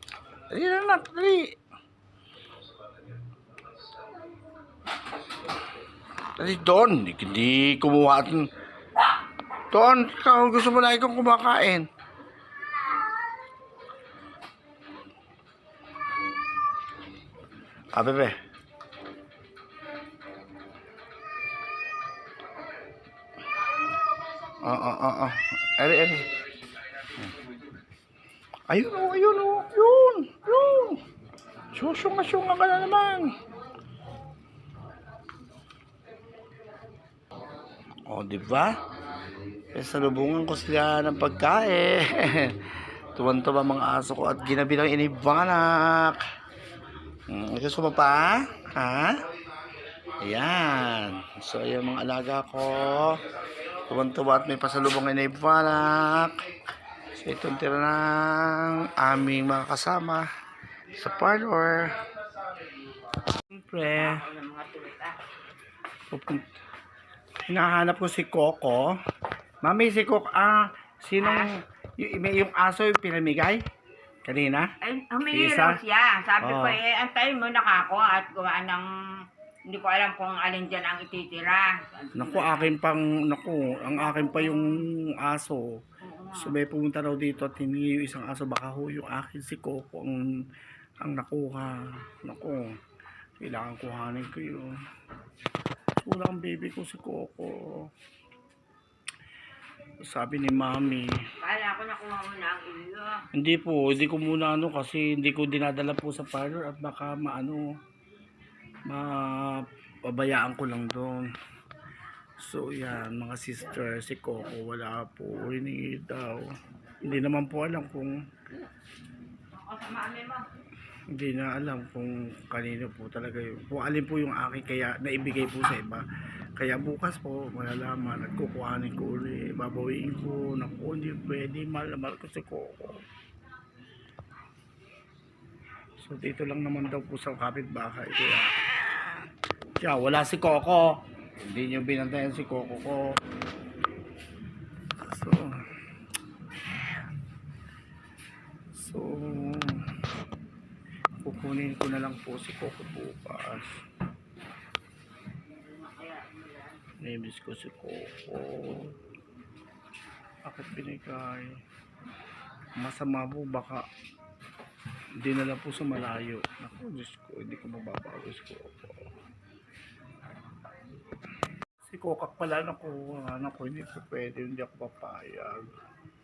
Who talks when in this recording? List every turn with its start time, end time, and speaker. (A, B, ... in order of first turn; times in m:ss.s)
0:00.5-0:01.6 A
0:06.4-0:08.5 A
0:09.7-0:11.9 A
0:17.9-0:18.4 A
0:24.6-0:26.3 A
0:28.7-0:31.0 A
0:31.7-0:33.3 A
0:38.1-0:38.8 A
0:39.7-0:46.2 A
0:47.3-0:49.3 A
0:50.2-0:56.5 A
0:57.1-1:00.3 A
1:00.9-1:02.1 A
1:03.4-1:04.2 A
1:03.9-1:05.2 B
1:06.1-1:06.5 A
1:07.4-1:09.0 A
1:09.6-1:13.6 A
1:11.2-1:11.5 B
1:14.2-1:14.7 A
1:14.8-1:22.7 B
1:15.3-1:15.8 A
1:16.4-1:16.8 A
1:22.2-1:25.8 A
1:23.8-1:24.8 B
1:26.0-1:26.6 B
1:26.3-1:30.4 A
1:31.0-1:32.8 A
1:33.4-1:34.8 A
1:36.0-1:37.9 A
1:40.0-1:41.1 A
1:41.4-1:43.2 B
1:43.3-1:47.7 A
1:48.9-1:51.3 A
1:52.4-1:58.2 A
1:59.5-2:00.5 B
2:01.1-2:06.0 A
2:06.6-2:13.0 A
2:16.0-2:19.2 A
2:19.8-2:23.2 A
2:25.0-2:25.6 A
2:28.7-2:29.9 A
2:31.2-2:33.8 A
2:35.5-2:36.8 B
2:37.0-2:39.0 A
2:40.4-2:41.6 A
2:42.8-2:43.9 A
2:45.2-2:49.1 A
2:51.9-2:55.7 A